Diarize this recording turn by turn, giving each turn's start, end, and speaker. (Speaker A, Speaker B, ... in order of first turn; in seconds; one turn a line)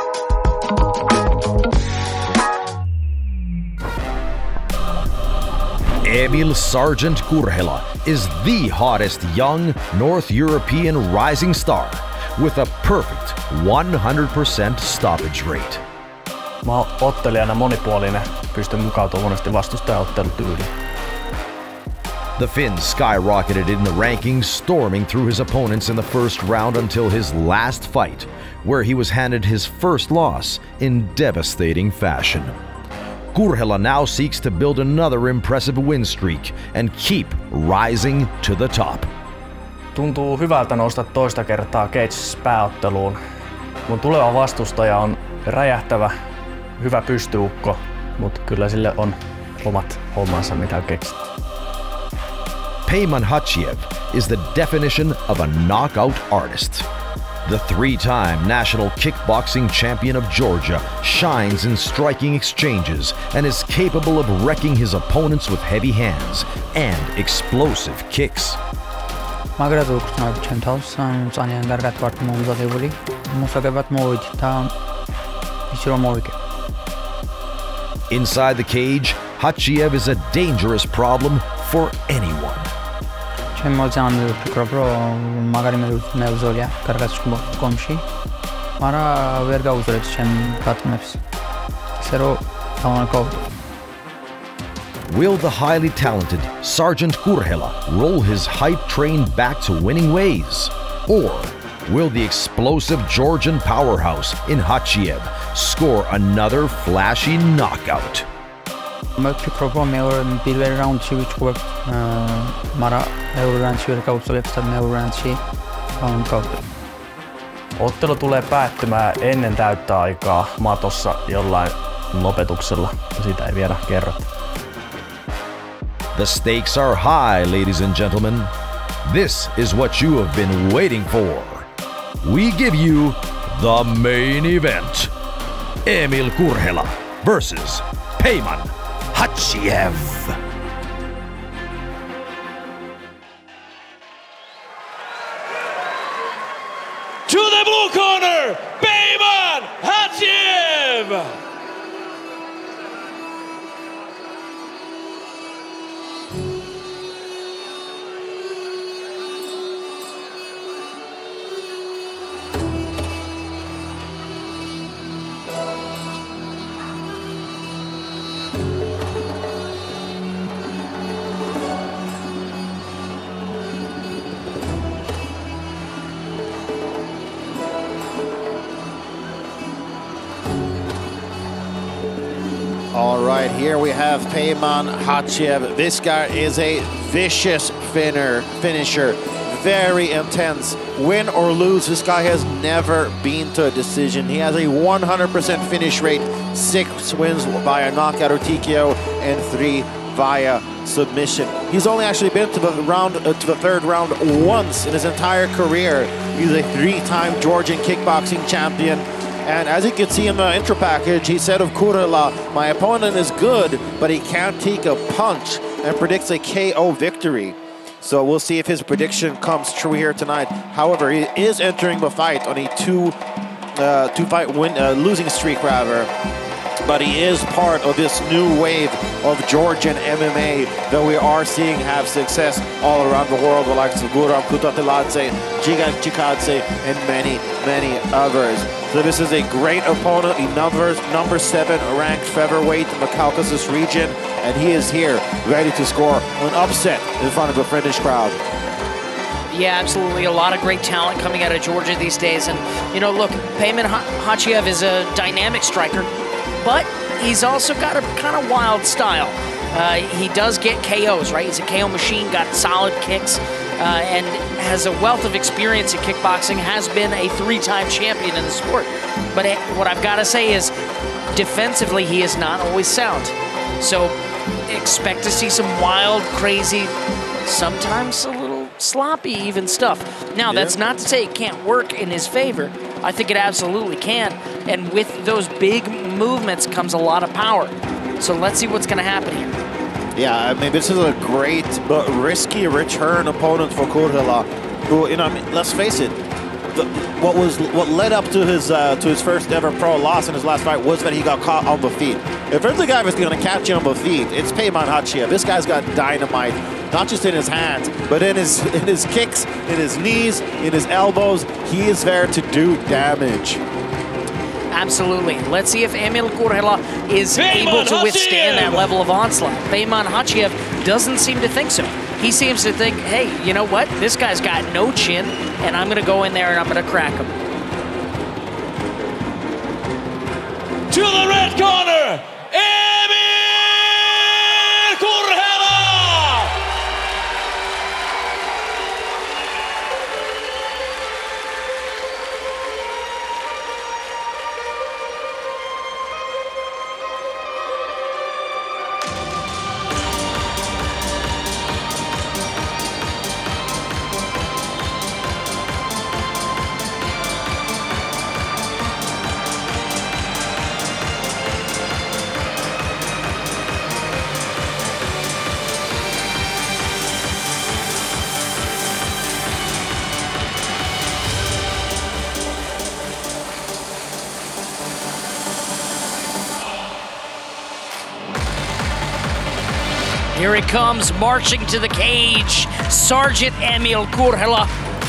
Speaker A: 6.0-15.8
Speaker B: 16.6-20.7
Speaker A: 22.4-32.5
Speaker A: 33.3-39.1
Speaker B: 40.0-43.2
Speaker B: 43.9-46.1
Speaker B: 46.8-51.3
Speaker A: 52.9-56.9
Speaker A: 57.5-68.6
Speaker C: 69.6-74.7
Speaker C: 75.7-76.4
Speaker A: 78.1-82.7
Speaker C: 83.5-88.0
Speaker C: 88.8-91.2
Speaker C: 92.0-93.5
Speaker A: 95.1-108.3
Speaker C: 109.2-115.4
Speaker C: 116.0-116.6
Speaker B: 117.8-124.3
Speaker A: 126.1-128.5
Speaker A: 129.1-131.7
Speaker A: 132.2-135.1
Speaker A: 135.8-140.4
Speaker D: 147.3-151.3
Speaker E: 182.9-223.2
Speaker E: 223.8-226.1
Speaker E: 226.8-248.4
Speaker F: 249.5-256.1
Speaker F: 256.6-270.7
Speaker F: 271.3-274.2
Speaker F: 274.7-276.9
Speaker F: 277.4-289.6
Speaker E: 280.5-280.8
Speaker E: 290.1-296.2
Speaker E: 296.7-313.6
Speaker F: 314.7-327.3
Speaker D: 317.4-318.9
Speaker D: 330.9-336.5
Speaker F: 380.3-384.7